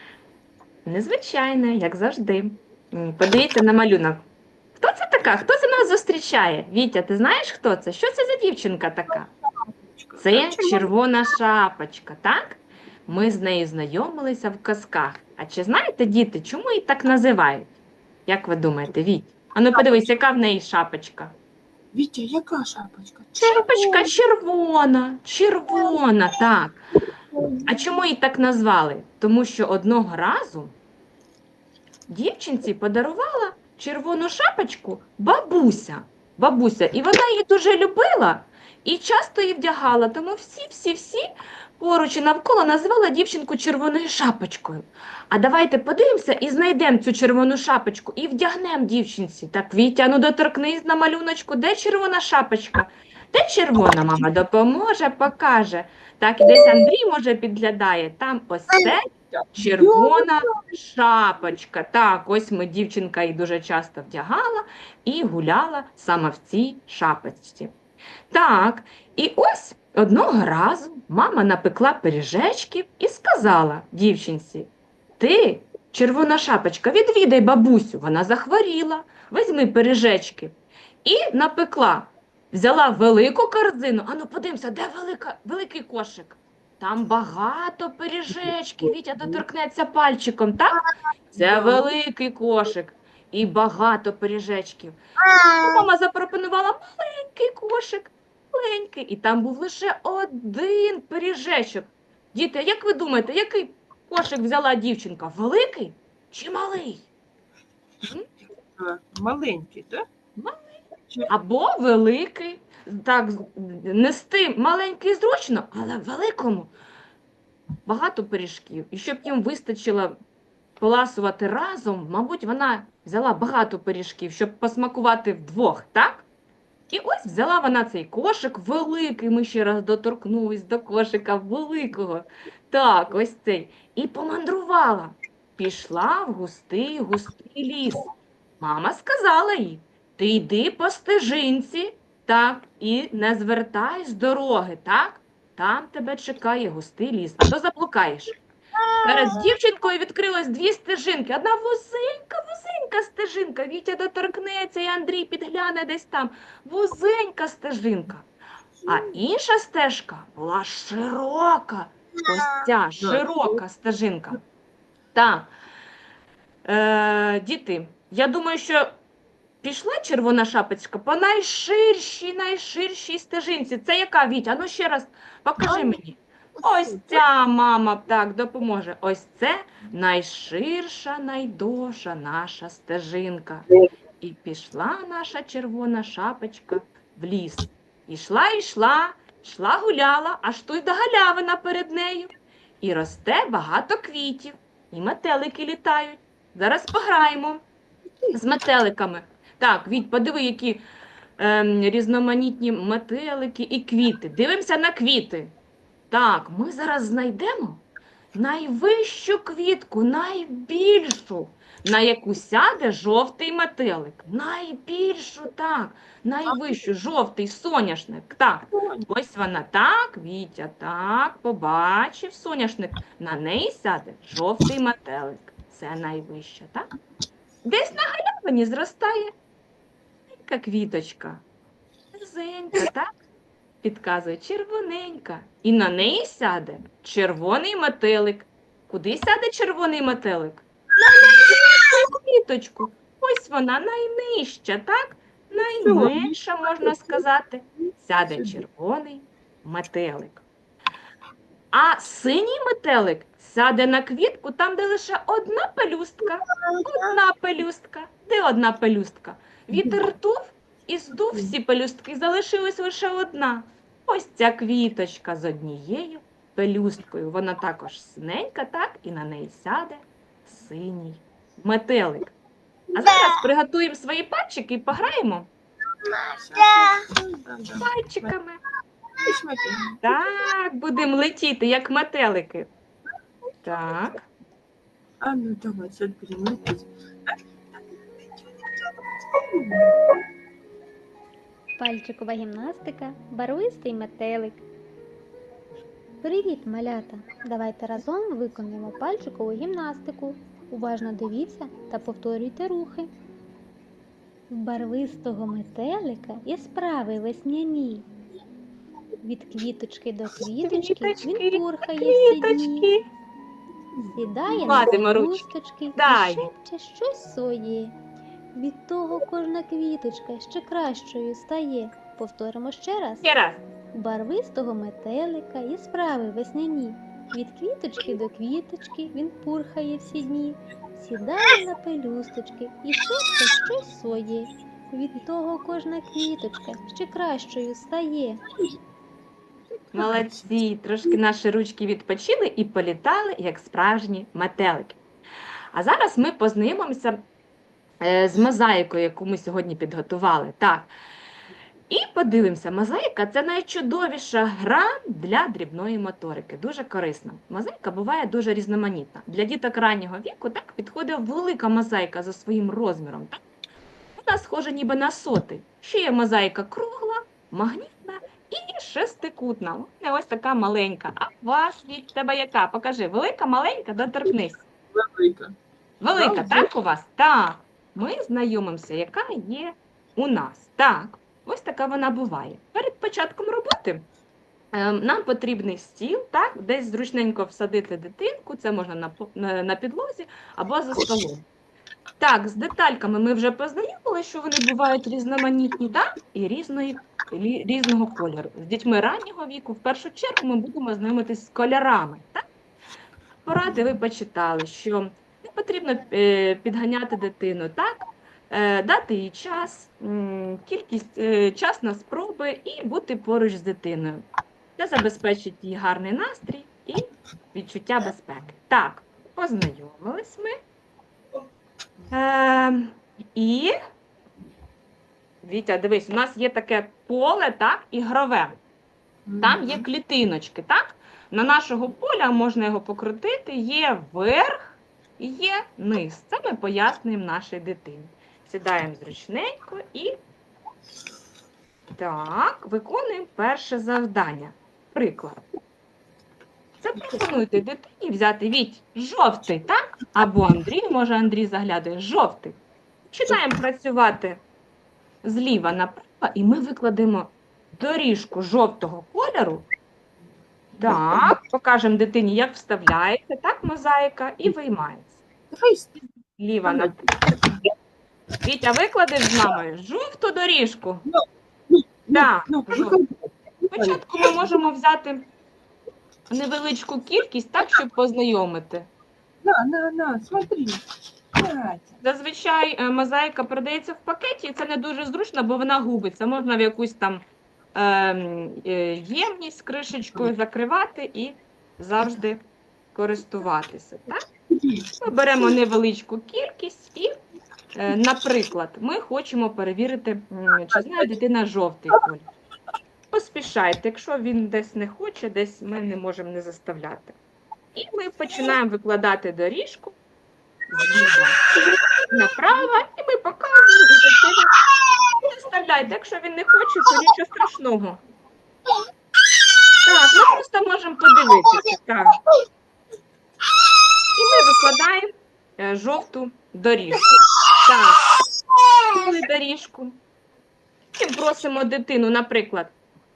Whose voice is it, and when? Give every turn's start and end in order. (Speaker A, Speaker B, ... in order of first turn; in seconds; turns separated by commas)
Speaker A: 0.8-4.2, Speaker A: 4.8-9.3, Speaker B: 9.6-10.9, Speaker A: 10.2-17.7, Speaker A: 18.3-21.4, Speaker B: 21.9-24.2, Speaker A: 23.4-26.8, Speaker B: 27.3-27.7, Speaker A: 27.7-30.8, Speaker A: 32.1-41.3, Speaker A: 41.8-67.7, Speaker B: 56.4-56.8, Speaker B: 58.7-60.3, Speaker A: 68.3-95.0, Speaker A: 95.5-107.1, Speaker B: 108.5-110.0, Speaker A: 110.4-110.7, Speaker A: 111.3-116.7, Speaker A: 117.9-120.2, Speaker A: 120.8-126.3, Speaker A: 126.9-148.3, Speaker A: 149.0-158.3, Speaker A: 158.9-164.4, Speaker B: 163.0-163.4, Speaker A: 165.1-165.5, Speaker A: 166.7-168.9, Speaker A: 169.6-183.7, Speaker B: 175.6-175.9, Speaker B: 176.6-177.1, Speaker A: 184.2-197.6, Speaker A: 198.3-200.8, Speaker A: 201.4-205.5, Speaker A: 206.1-207.8, Speaker A: 208.3-226.9, Speaker B: 216.5-216.7, Speaker B: 218.7-219.1, Speaker A: 227.6-229.3, Speaker A: 230.4-231.4, Speaker A: 232.1-233.1, Speaker A: 233.8-250.4, Speaker B: 241.0-241.4, Speaker B: 245.8-247.2, Speaker B: 248.3-248.6, Speaker A: 251.7-272.4, Speaker B: 256.5-257.2, Speaker B: 259.7-260.0, Speaker B: 261.3-261.5, Speaker A: 272.9-275.5, Speaker B: 276.2-278.3, Speaker A: 277.8-278.6, Speaker B: 279.2-280.0, Speaker A: 280.0-282.7, Speaker A: 283.6-284.3, Speaker B: 285.2-287.4, Speaker B: 288.6-290.0, Speaker C: 291.8-294.6, Speaker C: 296.2-303.1, Speaker C: 304.5-308.1, Speaker C: 309.2-312.9, Speaker A: 310.6-313.1, Speaker B: 314.0-314.9, Speaker C: 314.1-317.9, Speaker A: 314.6-316.4, Speaker C: 318.6-323.2, Speaker A: 323.2-323.6, Speaker C: 323.9-338.4, Speaker A: 339.9-345.0, Speaker B: 339.9-340.4, Speaker A: 345.7-347.2, Speaker A: 348.0-350.9, Speaker A: 351.9-363.4, Speaker A: 364.2-374.6, Speaker B: 374.9-375.6, Speaker A: 376.0-384.1, Speaker B: 376.1-376.7, Speaker A: 384.7-391.5, Speaker A: 392.2-402.4, Speaker A: 403.4-414.2, Speaker A: 414.8-420.5, Speaker A: 422.1-423.8, Speaker A: 425.4-428.6, Speaker B: 429.3-429.8, Speaker A: 429.4-440.2, Speaker A: 441.9-445.4, Speaker A: 446.8-452.6, Speaker A: 453.1-454.4, Speaker A: 455.2-459.7, Speaker B: 460.8-461.3, Speaker A: 460.8-465.2, Speaker B: 465.5-466.1, Speaker A: 466.4-466.9, Speaker B: 466.7-467.6, Speaker A: 468.4-471.1, Speaker B: 471.1-474.5, Speaker A: 472.1-473.0, Speaker A: 473.7-475.3, Speaker A: 476.3-478.9, Speaker B: 479.4-480.8, Speaker B: 481.4-482.0, Speaker A: 482.0-487.2, Speaker A: 487.7-492.4, Speaker A: 492.9-494.3, Speaker B: 494.5-494.9, Speaker A: 495.0-497.1, Speaker A: 497.7-502.3, Speaker B: 500.7-501.1, Speaker A: 503.1-507.2, Speaker A: 507.8-509.9, Speaker A: 510.7-511.4, Speaker A: 512.1-514.5, Speaker A: 515.1-518.0, Speaker A: 519.8-522.2, Speaker A: 524.1-528.1, Speaker A: 528.8-530.0, Speaker A: 531.0-532.7